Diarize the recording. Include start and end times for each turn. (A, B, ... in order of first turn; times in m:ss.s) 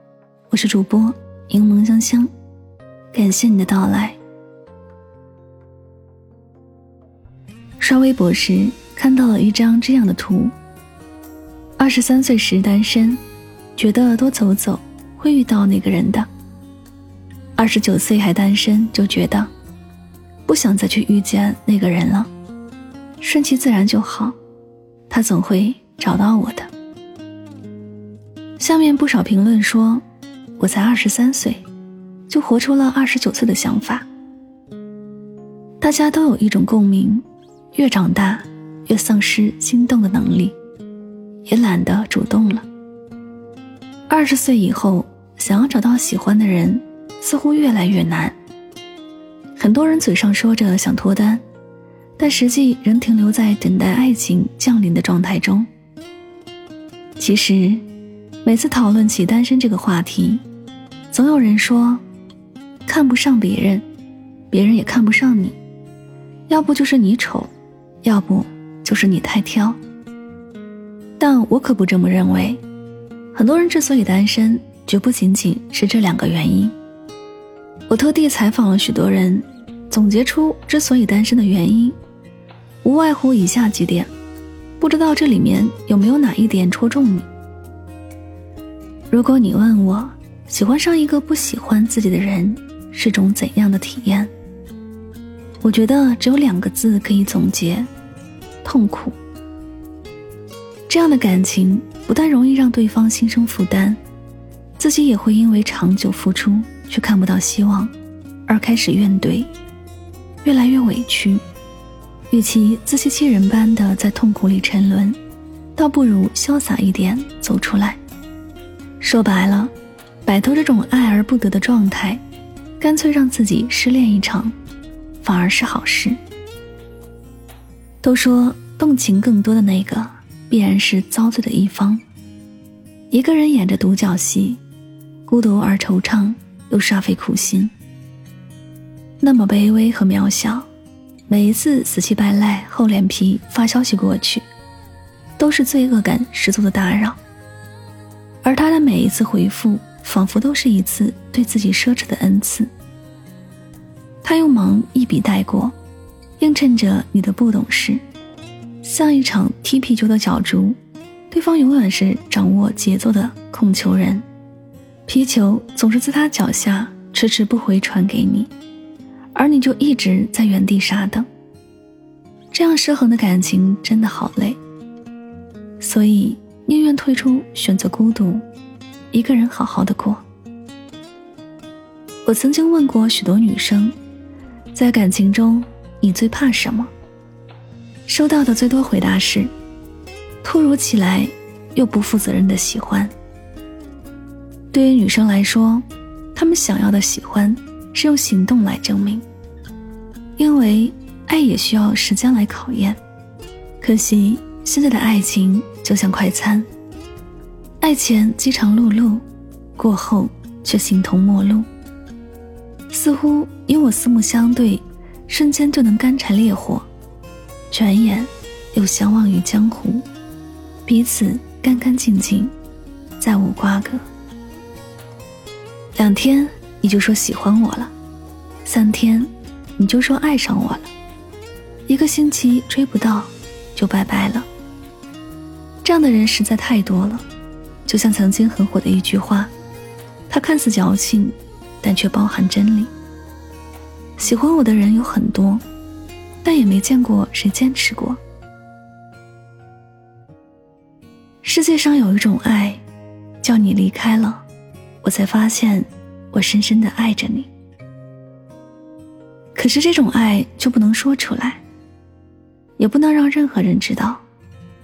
0:00.5-0:02.3 A
0:03.1-0:04.2 A
0:07.8-0:10.5 A
0:11.8-0:13.2 A
0:13.8-0:16.3 A
0:17.6-0:19.5 A
0:20.4-0:22.3 A
0:23.2-0:24.4 A
0:25.1-0:26.7 A
0:28.6-0:30.0 A
0:30.6-0:31.6 A
0:32.3-0:34.0 A
0:35.8-0:40.6 A
0:41.4-0:42.6 A
0:44.1-0:48.4 A
0:49.6-0:51.4 A
0:52.2-0:55.7 A
0:57.2-0:57.8 A
0:58.4-1:00.4 A
1:01.1-1:02.0 A
1:02.8-1:03.8 A
1:04.5-1:05.6 A
1:06.5-1:07.5 A
1:08.0-1:09.8 A
1:11.2-1:12.6 A
1:13.3-1:16.7 A
1:17.9-1:22.0 A
1:22.8-1:24.1 A
1:24.8-1:27.3 A
1:29.1-1:34.3 A
1:35.6-1:37.9 A
1:38.6-1:39.2 A
1:40.9-1:44.0 A
1:44.8-1:47.9 A
1:48.5-1:49.5 A
1:50.4-1:51.4 A
1:52.3-1:55.2 A
1:55.8-1:58.0 A
1:59.0-1:59.7 A
2:00.2-2:02.2 A
2:02.8-2:04.5 A
2:05.2-2:06.2 A
2:08.0-2:12.0 A
2:13.1-2:14.6 A
2:15.3-2:17.7 A
2:19.2-2:20.7 A
2:21.3-2:24.4 A
2:25.4-2:27.2 A
2:28.4-2:32.7 A
2:34.2-2:35.7 A
2:36.4-2:38.0 A
2:38.8-2:40.8 A
2:41.3-2:44.2 A
2:45.1-2:48.5 A
2:49.3-2:51.3 A
2:52.5-2:54.6 A
2:55.8-2:58.4 A
2:59.1-3:00.2 A
3:02.2-3:03.9 A
3:04.7-3:06.9 A
3:08.1-3:09.5 A
3:10.4-3:13.1 A
3:14.7-3:19.2 A
3:20.4-3:23.0 A
3:23.8-3:26.7 A
3:27.8-3:29.2 A
3:29.8-3:31.7 A
3:32.9-3:36.9 A
3:37.7-3:40.0 A
3:40.8-3:42.5 A
3:43.2-3:44.0 A
3:45.9-3:47.9 A
3:48.6-3:50.9 A
3:51.9-3:54.5 A
3:55.8-3:57.2 A
3:57.8-3:59.5 A
4:00.3-4:02.9 A
4:04.2-4:05.6 A
4:06.4-4:08.2 A
4:11.4-4:12.8 A
4:13.4-4:14.4 A
4:15.0-4:17.5 A
4:19.5-4:21.6 A
4:22.8-4:24.2 A